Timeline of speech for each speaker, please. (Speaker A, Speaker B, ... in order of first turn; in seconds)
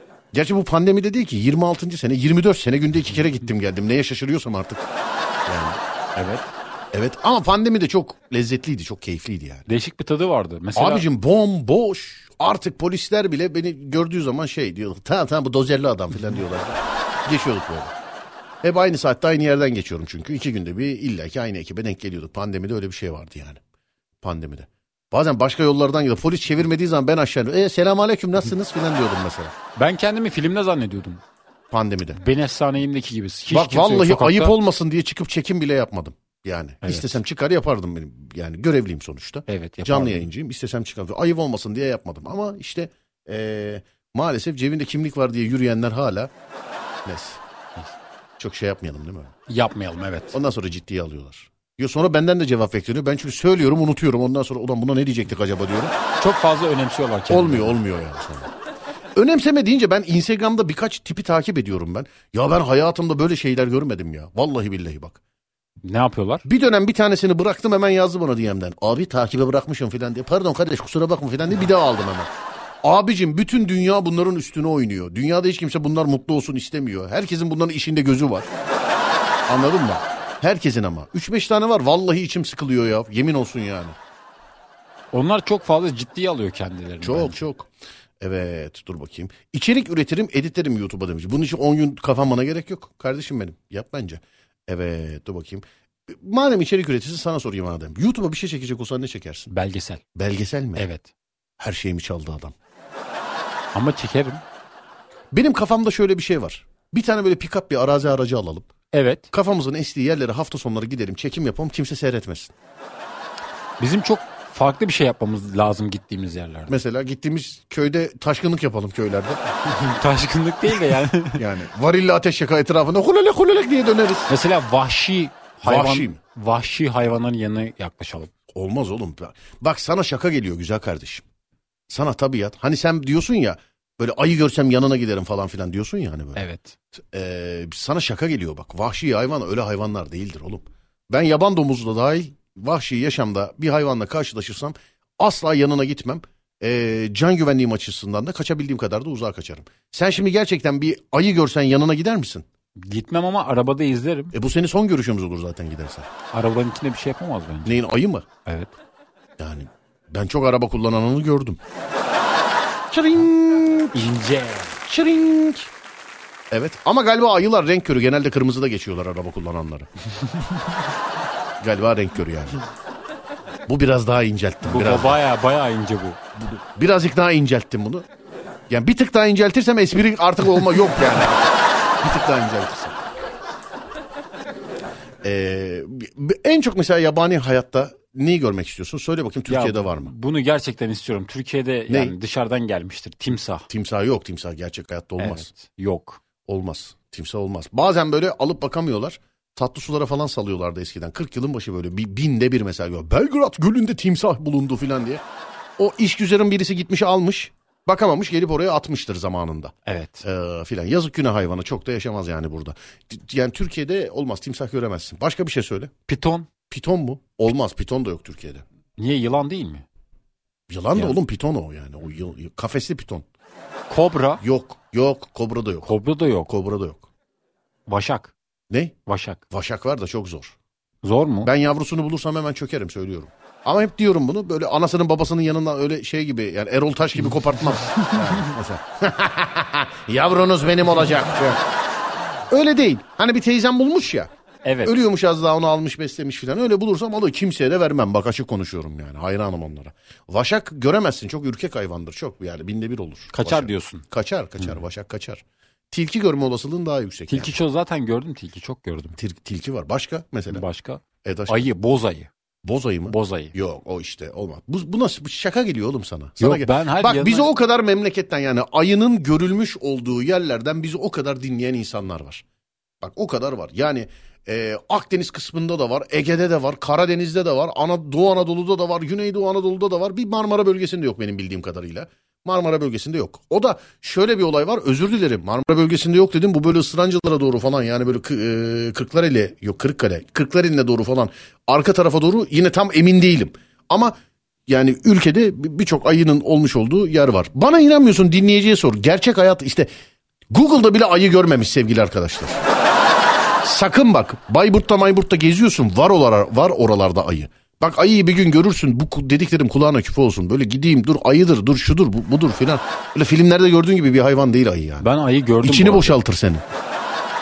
Speaker A: 0.3-4.9, 5.5-5.8, 6.9-9.7, 10.8-17.9, 18.6-23.6, 24.2-29.6, 31.7-32.2, 33.5-46.3, 47.0-47.4, 48.4-49.4, 50.3-56.0, 57.3-58.5, 59.2-65.2, 66.5-72.3, 72.8-78.5, 79.5-84.0, 87.0-99.5, 100.2-100.9, 101.6-102.5, 105.3-108.7, 109.3-112.5, 116.7-119.4, 121.3-124.3, 125.6-126.2, 128.5-131.2, 131.9-136.4, 137.0-152.4, 154.3-156.1, 157.7-158.3, 159.4-161.6, 162.9-164.0, 164.9-165.7, 166.5-169.9, 171.6-172.6, 173.7-175.2, 176.3-178.1, 178.7-183.0, 185.2-190.1, 191.9-192.2, 193.7-195.5, 196.4-205.2, 205.8-215.9, 216.7-218.6, 220.7-223.3, 224.4-225.9, 226.5-227.1, 228.7-229.0, 229.5-230.6, 231.4-241.6, 242.5-244.3, 244.8-257.5, 259.2-260.6, 261.2-261.7, 262.6-272.4, 273.0-299.9, 300.5-302.6, 303.6-315.1, 315.6-316.6
Speaker B: 6.2-6.5, 9.7-11.0, 29.8-31.2, 32.2-34.5, 36.8-37.2, 39.5-40.3, 49.5-50.4, 56.2-57.8, 65.8-66.5, 85.1-87.4, 99.5-100.0, 100.8-101.1, 103.7-104.4, 108.9-109.3, 113.8-116.7, 119.7-121.4, 124.3-128.3, 136.4-136.8, 152.8-154.3, 156.3-157.8, 158.4-158.7, 163.9-164.8, 174.6-176.2, 189.5-193.7, 195.2-196.2, 209.9-210.2, 216.1-216.5, 219.0-219.8, 223.9-224.4, 225.8-226.5, 227.9-228.3, 229.1-229.4, 231.0-231.5, 244.6-244.9, 253.3-254.0, 257.3-259.2, 260.5-262.3, 263.1-263.5, 266.4-267.5, 315.0-316.2